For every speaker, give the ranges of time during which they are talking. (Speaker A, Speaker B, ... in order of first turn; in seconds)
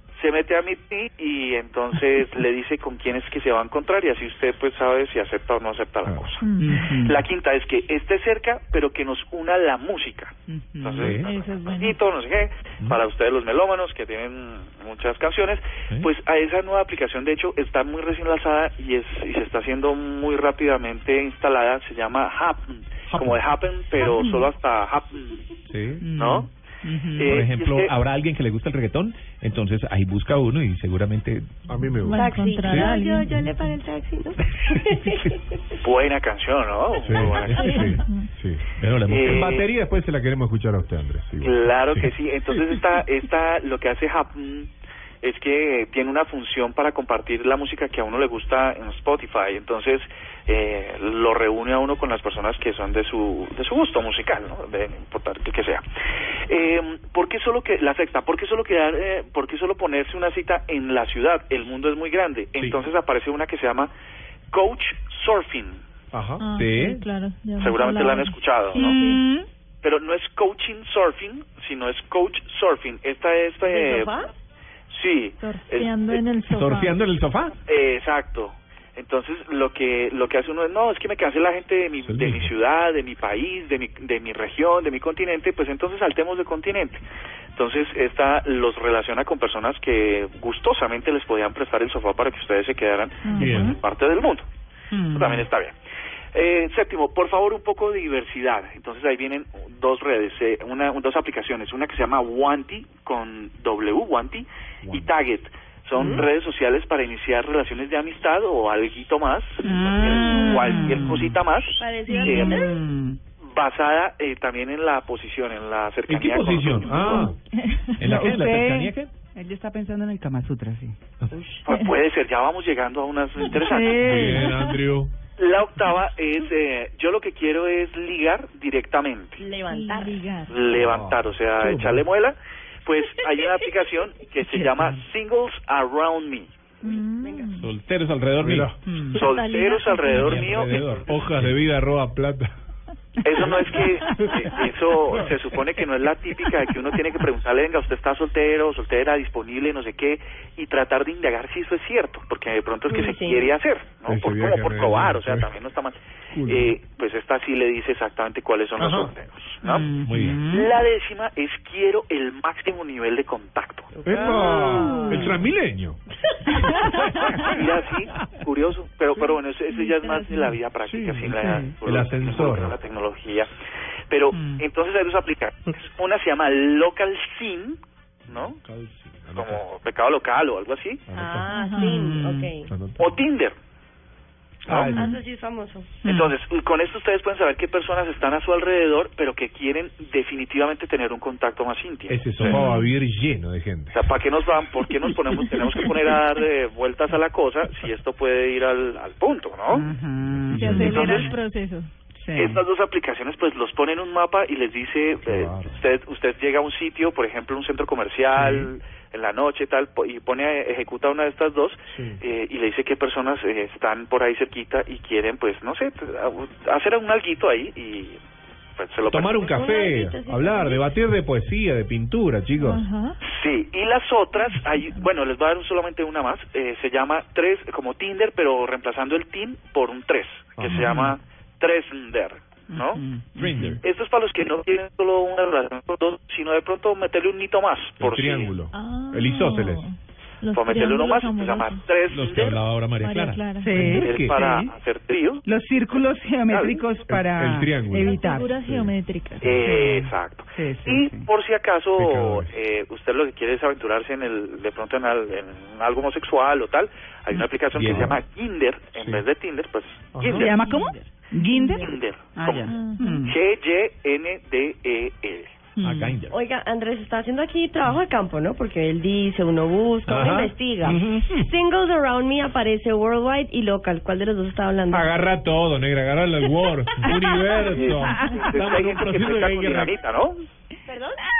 Speaker A: 0.1-25.4, 26.1-26.5, 27.1-27.9, 35.8-37.8, 39.0-39.7, 41.4-44.7, 45.2-55.8, 56.5-63.9, 64.5-65.8, 67.6-68.9, 69.8-74.2, 74.9-76.2, 77.7-87.0, 87.5-94.5, 95.1-95.7, 96.3-112.7, 113.5-117.3, 121.6-124.4, 125.4-129.4, 130.5-136.5, 139.1-141.2, 143.2-159.8, 160.4-163.9, 167.4-173.5, 174.1-178.6, 179.3-181.0, 183.0-183.6, 184.7-185.0, 186.0-192.6, 193.9-199.8, 200.7-201.3, 202.3-218.2, 218.8-219.6, 223.2-233.0, 233.8-238.5, 240.5-242.7, 243.8-245.4, 246.5-246.8, 249.4-260.6, 261.8-262.7, 263.2-265.7, 277.7-280.4
Speaker B: 6.0-6.3, 23.1-23.4, 25.7-26.0, 31.6-32.9, 37.0-38.7, 39.2-42.8, 66.1-66.5, 82.0-82.5, 93.4-93.7, 116.1-117.3, 124.0-125.1, 130.7-132.0, 138.4-138.8, 140.8-142.5, 154.1-155.6, 156.3-156.8, 158.8-159.1, 160.0-160.4, 164.0-166.0, 170.8-172.8, 178.3-179.6, 181.1-181.5, 182.7-183.1, 184.7-185.2, 192.1-194.1, 200.3-201.1, 205.2-205.8, 211.9-212.2, 219.1-222.8, 230.6-230.8, 238.0-239.9, 243.8-244.7, 247.1-248.9, 251.9-252.5, 259.0-259.2, 260.1-260.5, 270.1-271.5, 274.9-279.9
Speaker C: 6.4-6.8, 11.0-12.0, 32.0-33.8, 37.5-38.3, 66.4-69.2, 75.4-77.1, 93.2-93.8, 110.1-111.1, 117.0-118.2, 129.7-130.5, 136.8-137.7, 139.2-141.0, 164.3-165.3, 166.7-167.0, 169.7-170.5, 181.5-182.1, 192.5-192.9, 200.5-201.9, 222.6-223.2, 238.7-242.1, 242.9-243.9, 248.0-249.8, 260.4-261.9, 262.7-263.2
Speaker D: 6.5-7.2, 10.5-11.2, 26.0-27.4, 68.7-69.5, 94.9-95.5, 109.6-111.4, 112.1-113.2, 118.0-121.0, 123.5-124.6, 134.4-135.0, 138.8-139.2, 159.6-160.7, 174.3-174.6, 182.0-182.5, 186.0-186.3, 199.7-201.4, 202.1-202.6, 208.3-208.7, 230.7-231.2, 232.7-233.8, 243.6-244.2, 245.4-248.6, 249.6-251.3, 260.3-263.3, 265.8-266.2, 278.0-278.4
Speaker E: 27.3-31.6, 37.4-37.7, 38.8-39.6, 66.6-67.0, 76.5-77.5, 118.0-119.1, 137.6-138.7, 140.2-141.6, 233.3-233.7, 242.1-243.4, 257.7-258.2, 265.8-266.4
Speaker F: 32.1-35.6, 73.6-74.3, 106.0-106.2, 111.8-112.8, 121.3-121.6, 129.4-130.3, 137.2-137.6, 152.9-153.5, 163.9-165.3, 181.1-182.7, 184.9-186.0, 219.4-220.9, 266.3-275.1, 280.9-281.2